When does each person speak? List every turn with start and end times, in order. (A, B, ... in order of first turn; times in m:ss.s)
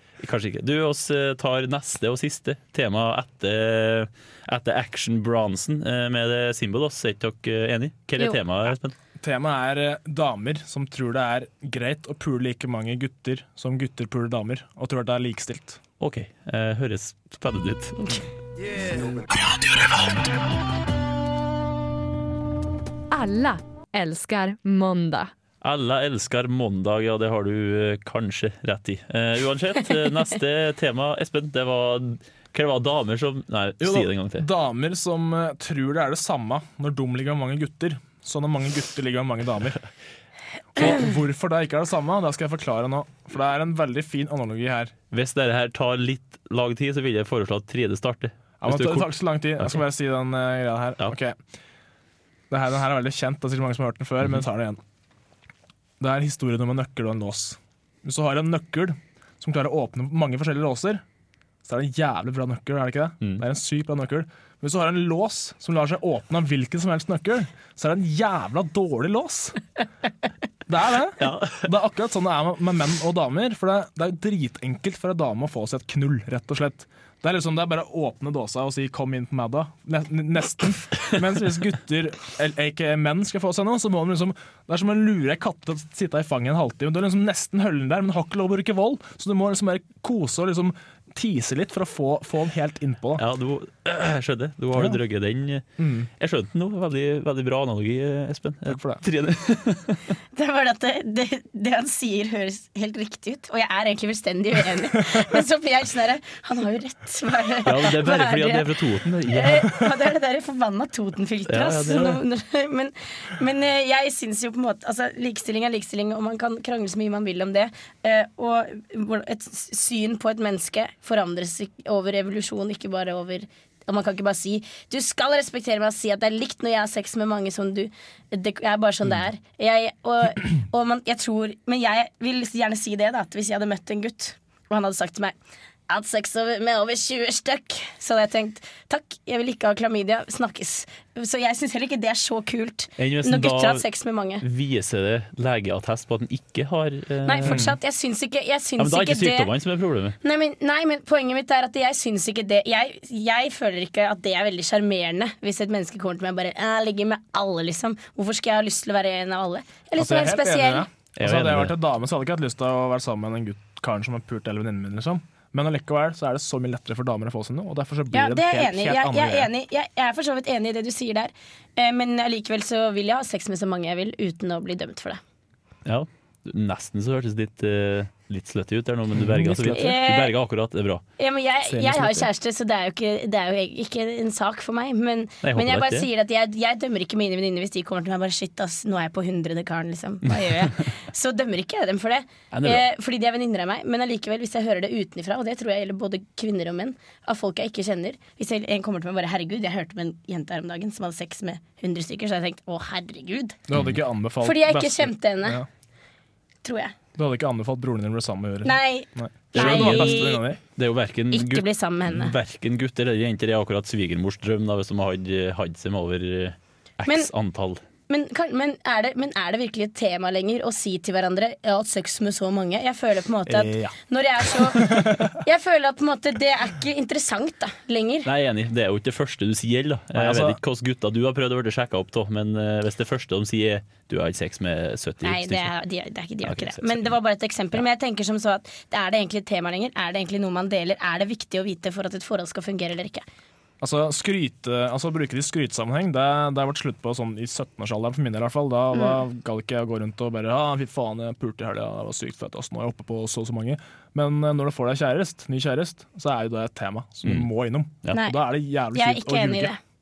0:00.2-0:08.9 A
0:09.2-0:15.8 B
0:16.0-0:18.2 A
0:23.1-0:25.3 C
0:25.6-0:34.5 A
0:33.8-0:39.8 B
0:40.7-0:44.9 B
0:45.1-0:49.8 A
0:48.6-0:51.4 B
0:52.5-0:54.8 B
0:56.0-1:01.0 B
1:01.6-1:09.6 B
1:10.7-1:33.2 B
1:11.2-1:11.7 A
1:33.2-1:35.6 A
1:34.7-1:35.0 B
1:35.8-1:36.1 B
1:36.2-1:40.0 A
1:38.7-1:39.0 B
1:40.3-2:15.3 D
1:47.6-1:49.7 A
1:51.5-1:52.2 A
2:15.9-2:24.4 D
2:23.0-2:23.8 A
2:24.4-2:27.7 A
2:27.2-2:29.5 D
2:27.4-2:27.7 B
2:28.8-2:30.2 A
2:30.2-2:40.9 D
2:40.0-2:49.5 B
2:41.2-2:41.8 A
2:48.1-2:55.2 D
2:55.8-3:01.0 A
2:59.1-2:59.9 B
2:59.7-3:00.3 D
3:01.2-3:23.6 D
3:01.7-3:02.2 B
3:05.4-3:06.1 A
3:10.4-3:10.6 A
3:12.5-3:12.8 A
3:23.7-3:25.7 B
3:23.7-3:24.0 A
3:24.4-3:25.6 D
3:26.6-3:26.9 D
3:27.1-3:30.6 B
3:28.6-3:30.4 D
3:29.5-3:37.8 A
3:31.3-3:32.3 D
3:38.1-3:48.3 D
3:43.4-3:44.0 B
3:44.5-3:45.4 B
3:48.2-3:55.7 A
3:50.1-3:50.6 B
3:55.2-4:03.2 D
3:56.4-3:57.2 A
4:03.8-4:19.7 B
4:08.9-4:09.2 D
4:17.2-4:17.5 A
4:18.1-4:18.4 D
4:18.9-4:19.8 D